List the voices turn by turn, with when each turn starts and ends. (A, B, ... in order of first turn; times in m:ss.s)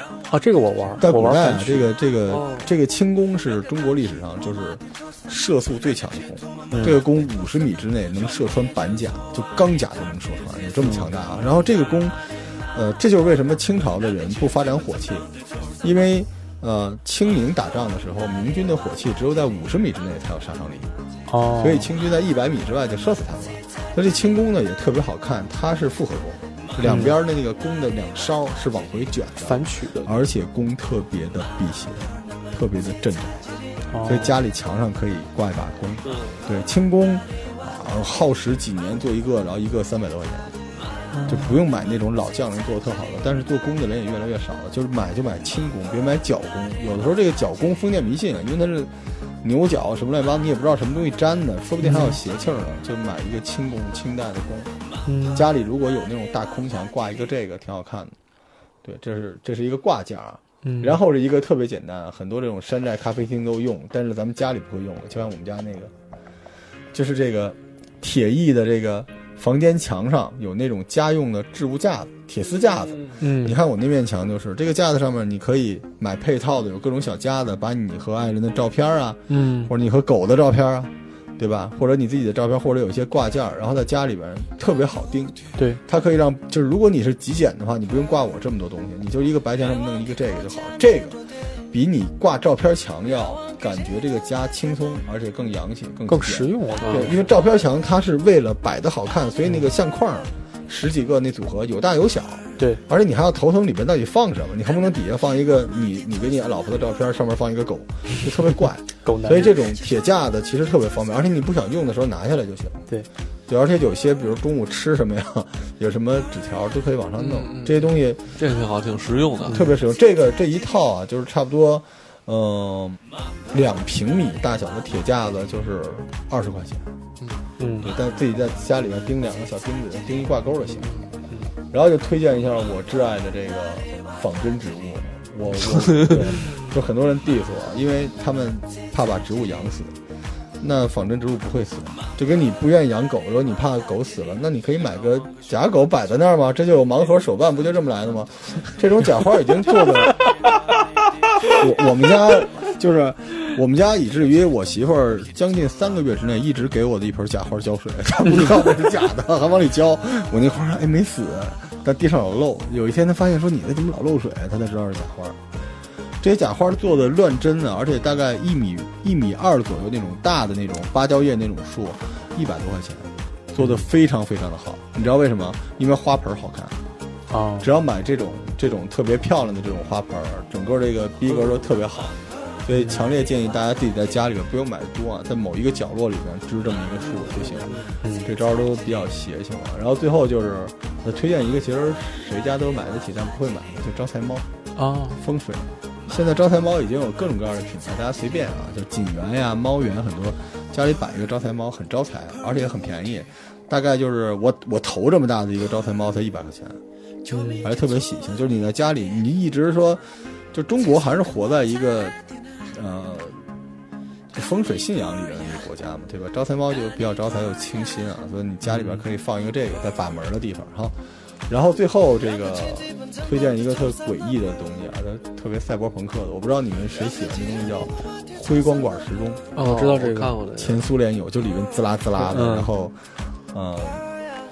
0:00.3-0:01.9 A
0:01.0-0:15.3 B
0:02.3-0:02.7 C
0:06.7-0:07.0 A
0:10.8-0:11.1 A
0:15.8-0:20.9 B
0:21.3-0:21.9 A
0:21.6-0:33.5 B
0:26.8-0:27.2 A
0:29.4-0:30.2 A
0:33.9-0:34.4 A
0:34.0-0:40.6 B
0:36.1-0:36.4 C
0:41.1-0:41.6 A
0:41.3-0:54.7 B
0:51.8-0:52.2 A
0:55.1-0:55.5 A
0:55.3-0:58.2 B
0:58.8-1:05.9 B
1:00.6-1:01.0 A
1:06.9-1:52.8 B
1:13.2-1:13.6 A
1:19.3-1:19.7 A
1:36.1-1:37.2 A
1:36.8-1:37.2 C
1:49.0-1:49.5 A
1:53.5-1:58.2 B
1:57.2-1:59.6 C
1:59.4-1:59.8 A
1:59.5-2:03.0 B
2:03.5-2:06.9 B
2:07.6-2:07.9 A
2:07.8-2:11.0 B
2:10.7-2:11.1 C
2:11.7-2:20.0 B
2:15.6-2:16.6 C
2:20.6-2:30.3 B
2:31.5-2:45.4 B
2:46.2-2:56.8 B
2:53.6-2:53.8 A
2:57.3-2:57.7 A
2:57.6-3:14.5 B
3:01.3-3:01.7 C
3:02.7-3:03.0 A
3:07.0-3:07.9 C
3:08.0-3:08.3 A
3:14.8-3:15.2 A
3:15.2-3:26.8 B
3:27.3-3:27.7 A
3:27.6-3:32.2 B
3:32.7-3:33.4 B
3:34.3-3:49.5 B
3:49.6-3:50.4 A
3:49.6-3:50.8 C
3:50.6-3:54.1 B
3:52.2-3:52.7 A